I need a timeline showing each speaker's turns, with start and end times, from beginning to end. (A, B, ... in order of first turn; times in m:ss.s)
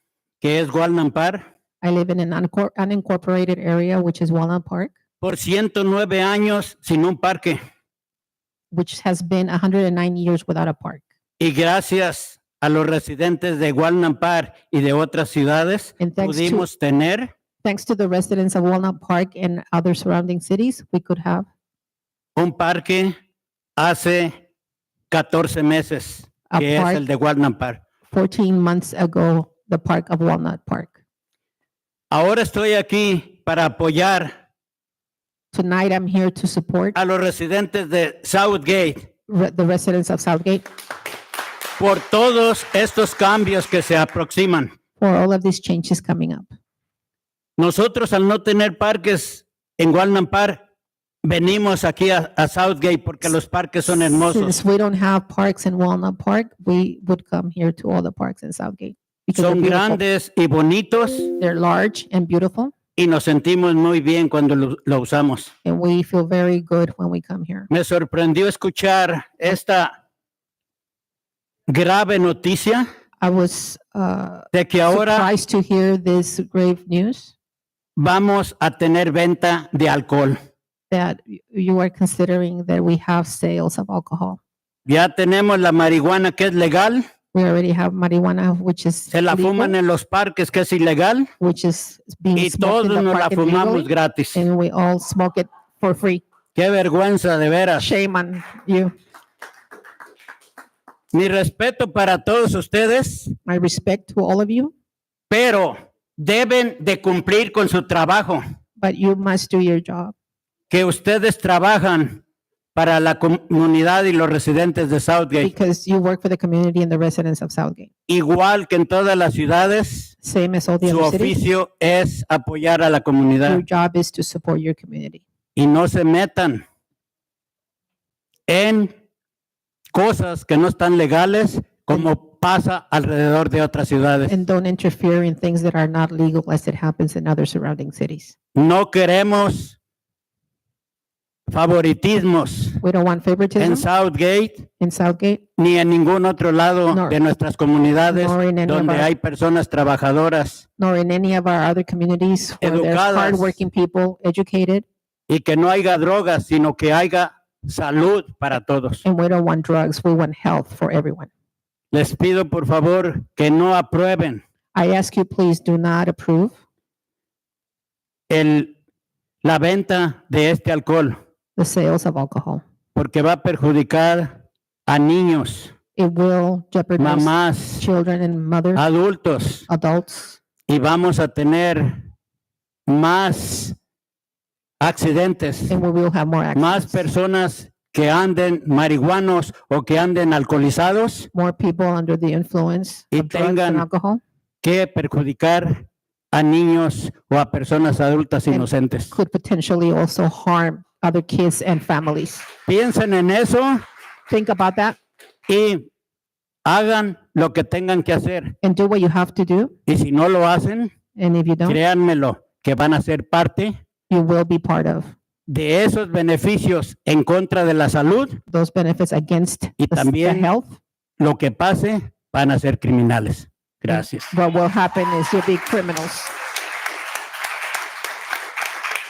0:00.4-0:01.4 A
0:01.8-0:04.9 B
0:05.2-0:07.6 A
0:08.7-0:11.0 B
0:11.4-0:17.3 A
0:16.0-0:16.7 B
0:17.6-0:21.5 B
0:22.4-0:23.1 A
0:23.8-0:24.3 A
0:25.1-0:27.8 A
0:26.5-0:27.0 B
0:28.1-0:31.0 B
0:32.1-0:34.3 A
0:35.5-0:37.0 B
0:37.0-0:39.1 A
0:39.3-0:40.6 B
0:41.8-0:44.7 A
0:45.0-0:46.5 B
0:47.6-0:50.6 A
0:51.2-0:54.6 A
0:54.1-1:00.0 B
0:59.4-1:01.3 A
1:01.4-1:02.7 B
1:03.0-1:05.5 A
1:05.6-1:07.7 B
1:07.7-1:09.9 A
1:11.7-1:12.9 A
1:13.2-1:17.3 B
1:14.5-1:15.3 A
1:18.0-1:20.4 A
1:20.9-1:24.4 B
1:24.9-1:27.0 A
1:27.3-1:29.8 B
1:29.1-1:31.3 A
1:31.4-1:36.2 B
1:32.4-1:34.4 A
1:36.6-1:37.9 A
1:37.8-1:38.9 B
1:41.1-1:43.4 A
1:43.5-1:44.7 B
1:45.3-1:48.4 A
1:48.8-1:50.1 B
1:50.7-1:52.2 A
1:52.8-1:55.5 A
1:55.4-1:57.9 B
1:58.1-2:00.1 A
2:00.2-2:01.4 B
2:00.8-2:03.6 A
2:03.5-2:05.2 B
2:05.6-2:06.6 A
2:08.5-2:08.9 A
2:09.9-2:14.4 A
2:14.3-2:18.3 B
2:18.6-2:19.8 A
2:21.5-2:22.8 A
2:22.8-2:23.9 B
2:23.6-2:24.7 A
2:24.8-2:25.4 B
2:25.6-2:30.7 A
2:26.9-2:27.2 B
2:28.1-2:29.1 B
2:30.8-2:34.9 B
2:32.6-2:33.6 A
2:35.3-2:39.0 A
2:39.0-2:41.3 B
2:41.9-2:44.4 A
2:44.8-2:46.5 B
2:48.3-2:48.7 A
2:49.4-2:51.2 A
2:51.6-2:52.6 B
2:53.0-2:55.7 A
2:56.0-2:58.8 B
2:57.0-2:57.8 A
2:58.8-2:59.7 A
2:59.7-3:00.4 B
3:00.7-3:02.0 A
3:02.9-3:03.8 A
3:04.8-3:05.8 A
3:05.7-3:07.0 B
3:06.6-3:11.3 A
3:11.3-3:14.2 B
3:13.1-3:13.8 A
3:14.6-3:19.1 A
3:18.5-3:22.5 B
3:22.7-3:23.8 A
3:24.3-3:25.0 B
3:25.5-3:25.9 A
3:26.7-3:28.6 A
3:28.6-3:29.7 B
3:29.9-3:30.9 A
3:31.2-3:31.8 B
3:31.6-3:33.8 A
3:34.1-3:35.1 B
3:35.5-3:38.4 A
3:38.5-3:40.8 B
3:39.8-3:40.5 A
3:41.2-3:44.3 A
3:44.3-3:46.3 B